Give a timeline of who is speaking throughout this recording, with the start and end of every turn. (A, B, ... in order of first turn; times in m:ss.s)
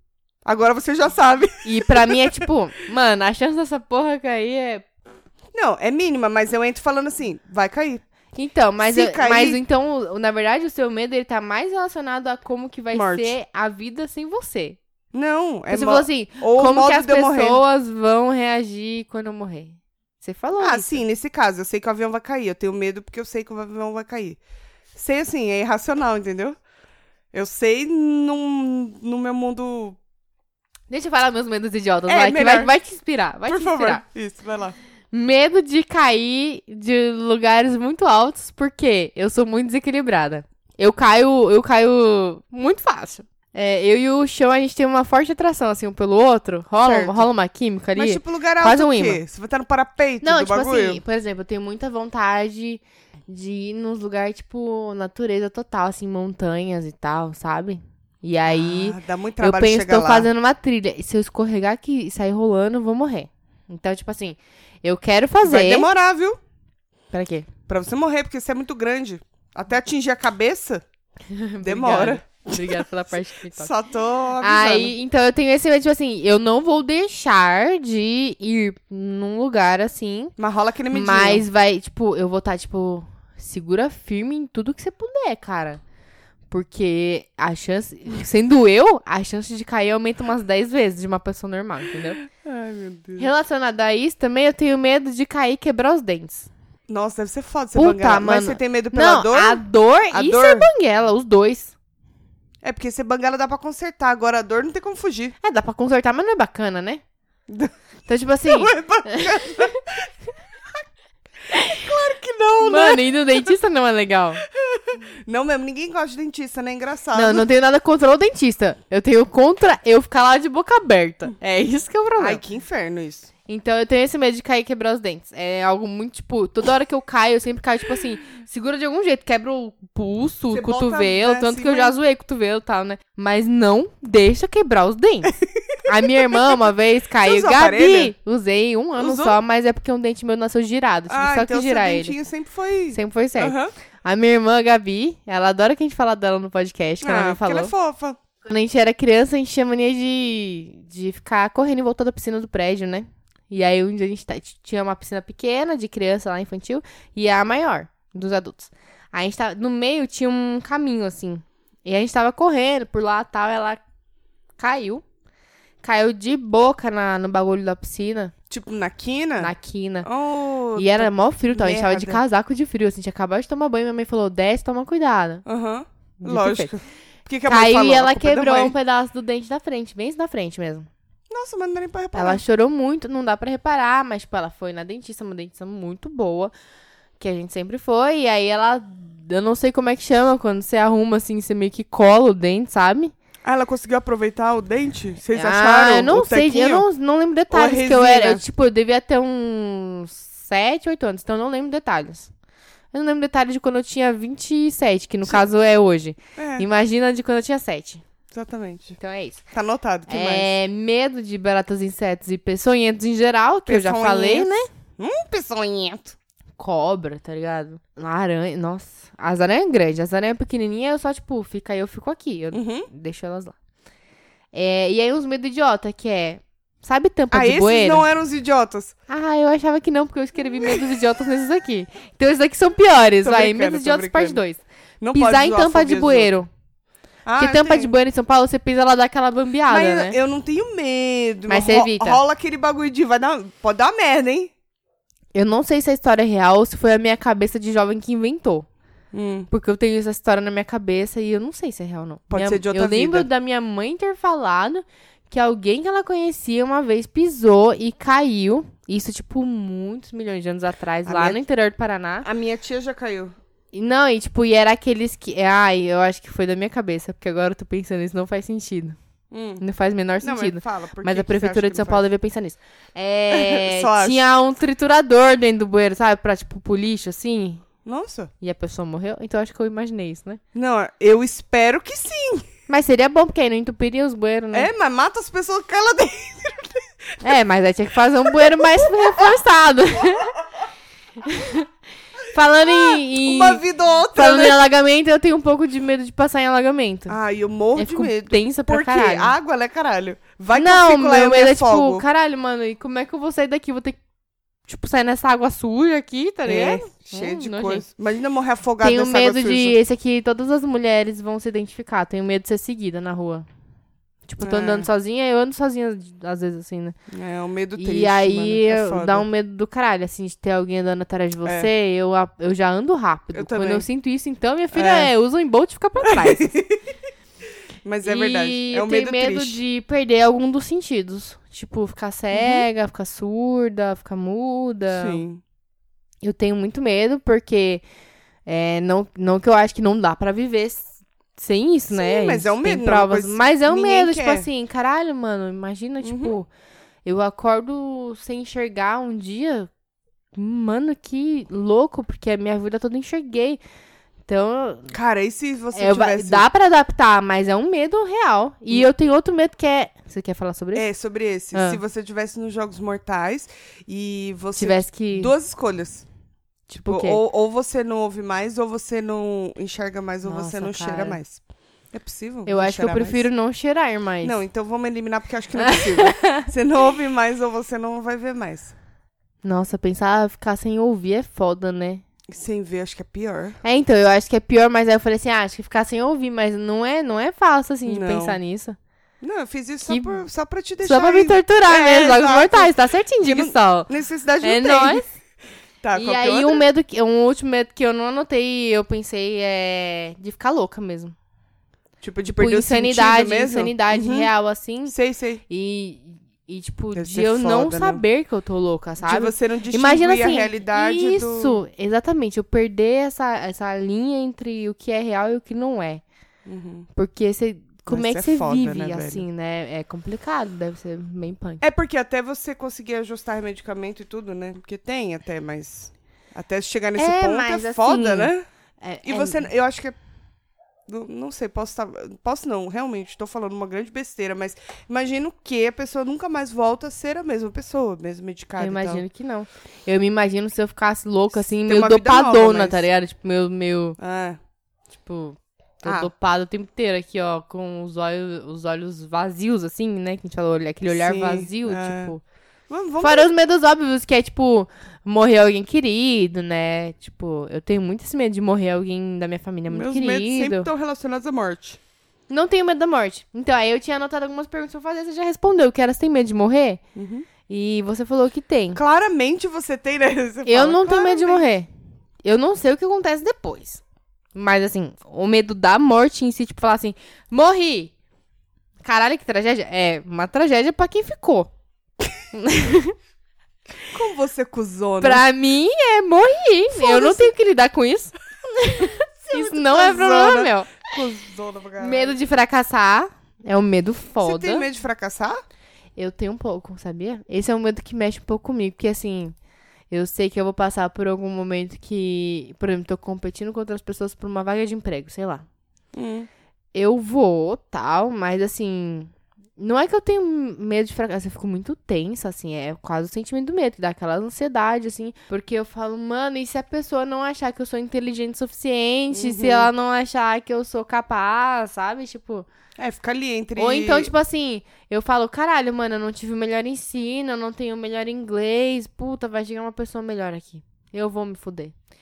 0:00.4-0:02.4 A
0:01.6-0:04.8 B
0:05.5-0:08.0 A
0:08.3-0:14.8 B
0:08.8-0:09.6 A
0:12.9-0:13.3 A
0:15.1-0:17.6 A
0:15.7-0:21.0 B
0:20.6-0:24.4 A
0:24.9-0:26.6 A
0:27.3-0:30.0 A
0:30.9-0:34.0 B
0:32.1-0:32.7 A
0:33.5-0:34.8 A
0:35.1-0:49.2 B
0:46.8-0:47.3 A
0:47.9-0:51.0 A
0:50.2-1:05.9 B
0:58.5-1:00.3 A
1:05.4-1:06.4 A
1:07.1-1:07.5 B
1:07.7-1:10.8 A
1:11.3-1:13.7 B
1:11.6-1:12.9 A
1:13.5-1:14.9 A
1:14.4-1:20.3 B
1:20.4-1:21.4 A
1:20.9-1:25.8 B
1:26.5-1:32.2 B
1:32.2-1:33.3 A
1:33.2-1:36.5 B
1:36.9-1:40.7 A
1:37.7-1:41.7 B
1:42.6-1:45.4 A
1:45.4-1:47.0 B
1:47.5-1:47.7 A
1:48.1-1:49.8 B
1:48.5-1:50.1 A
1:51.5-1:53.5 A
1:52.6-1:54.4 B
1:54.5-1:57.4 A
1:57.1-2:02.4 B
2:02.2-2:03.3 A
2:03.5-2:22.1 B
2:10.5-2:12.0 A
2:15.4-2:15.8 A
2:17.2-2:18.1 A
2:19.0-2:19.4 A
2:21.1-2:23.7 A
2:22.9-2:27.7 B
2:27.0-2:28.2 A
2:28.4-2:43.8 B
2:44.6-2:45.0 B
2:45.8-2:48.3 B
2:48.5-2:49.5 A
2:49.4-2:50.1 B
2:50.0-2:52.2 A
2:50.8-2:55.4 B
2:55.4-2:58.7 A
2:56.2-2:56.7 B
2:57.4-3:00.9 B
3:01.3-3:02.4 A
3:02.1-3:06.5 B
3:07.2-3:13.1 B
3:13.4-3:16.8 A
3:15.3-3:22.3 B
3:17.5-3:18.4 A
3:22.9-3:28.0 B
3:26.4-3:26.6 A
3:28.3-3:29.0 A
3:29.0-3:29.4 B
3:29.5-3:30.5 A
3:30.1-3:34.7 B
3:33.7-3:36.2 A
3:36.6-3:43.5 B
3:42.5-3:42.9 A
3:44.5-3:48.1 B
3:47.3-3:48.9 A
3:49.1-3:54.6 B
3:53.2-3:54.4 A
3:55.0-3:56.3 A
3:55.1-3:56.5 B
3:57.2-3:57.9 A
3:57.4-4:00.2 B
3:59.7-4:04.5 A
4:01.5-4:02.2 B
4:05.3-4:08.7 B
4:09.1-4:09.5 A
4:09.5-4:22.3 B
4:12.3-4:13.3 A
4:21.0-4:21.4 A
4:22.2-4:23.3 A
4:23.7-4:29.0 B
4:29.3-4:29.6 A
4:29.6-4:37.6 B
4:30.2-4:32.0 A
4:33.3-4:34.2 A
4:37.8-4:38.3 A
4:38.4-4:40.4 B
4:40.5-4:42.4 A
4:42.7-4:44.7 B
4:44.5-4:47.4 A
4:47.2-4:50.3 B
4:48.2-4:49.3 A
4:51.2-4:51.7 B
4:52.3-4:57.2 B
4:52.6-4:54.6 A
4:57.1-5:02.0 A
4:57.7-4:59.3 B
5:00.5-5:04.0 B
5:04.7-5:07.8 B
5:06.4-5:09.8 A
5:08.8-5:13.4 B
5:14.3-5:17.0 B
5:14.4-5:14.9 A
5:17.1-5:19.2 A
5:17.8-5:26.5 B
5:21.4-5:21.7 A
5:23.3-5:23.8 A
5:24.7-5:25.1 A
5:26.0-5:26.8 A
5:27.8-5:29.6 A
5:28.0-5:35.2 B
5:32.3-5:32.7 A
5:34.9-5:35.4 A
5:36.2-5:37.8 B
5:38.4-5:46.5 B
5:41.9-5:44.5 A
5:46.0-5:46.3 A
5:47.0-5:49.7 B
5:50.3-5:53.6 B
5:54.3-5:54.9 B
5:54.9-5:56.4 A
5:55.7-6:00.8 B
6:00.7-6:06.0 A
6:01.5-6:01.8 B
6:04.5-6:05.3 B
6:06.7-6:07.2 B
6:06.8-6:11.4 A
6:10.2-6:11.2 B
6:11.9-6:13.3 A
6:12.4-6:14.4 B
6:14.2-6:18.7 A
6:15.6-6:16.5 B
6:19.4-6:22.0 B
6:22.3-6:23.6 A
6:23.6-6:28.8 B
6:27.8-6:28.4 A
6:29.2-6:35.0 A
6:29.8-6:30.2 B
6:30.8-6:33.9 B
6:34.4-6:35.1 B
6:35.8-6:36.6 A
6:35.9-6:41.1 B
6:42.0-6:44.3 A
6:42.3-6:44.9 B
6:44.9-6:45.4 A
6:45.5-6:56.0 B
6:46.9-6:48.0 A
6:49.0-6:51.6 A
6:56.4-6:56.9 A
6:57.0-7:01.6 B
6:57.9-6:59.2 A
7:01.6-7:08.4 A
7:07.0-7:09.5 B
7:09.0-7:10.0 A
7:10.9-7:19.0 A
7:18.6-7:24.0 B
7:21.6-7:22.8 A
7:24.0-7:24.4 A
7:25.0-7:32.2 B
7:25.8-7:26.1 A
7:30.9-7:32.1 A
7:32.7-7:33.3 A
7:33.0-7:40.7 B
7:39.7-7:41.8 A
7:42.3-7:46.8 B
7:46.9-7:47.3 A
7:47.5-7:48.8 B
7:48.7-7:51.4 A
7:50.4-7:51.7 B
7:52.2-7:53.8 B
7:54.3-7:57.9 B
7:58.8-8:01.5 B
8:02.3-8:02.9 B
8:03.9-8:05.2 A
8:05.0-8:10.7 B
8:06.7-8:07.3 A
8:08.8-8:12.2 A
8:11.8-8:14.7 B
8:14.2-8:15.4 A
8:16.0-8:19.3 B
8:19.9-8:25.4 B
8:25.9-8:26.3 A
8:26.7-8:42.5 B
8:39.1-8:39.7 A
8:42.8-8:44.1 A
8:43.6-8:51.7 B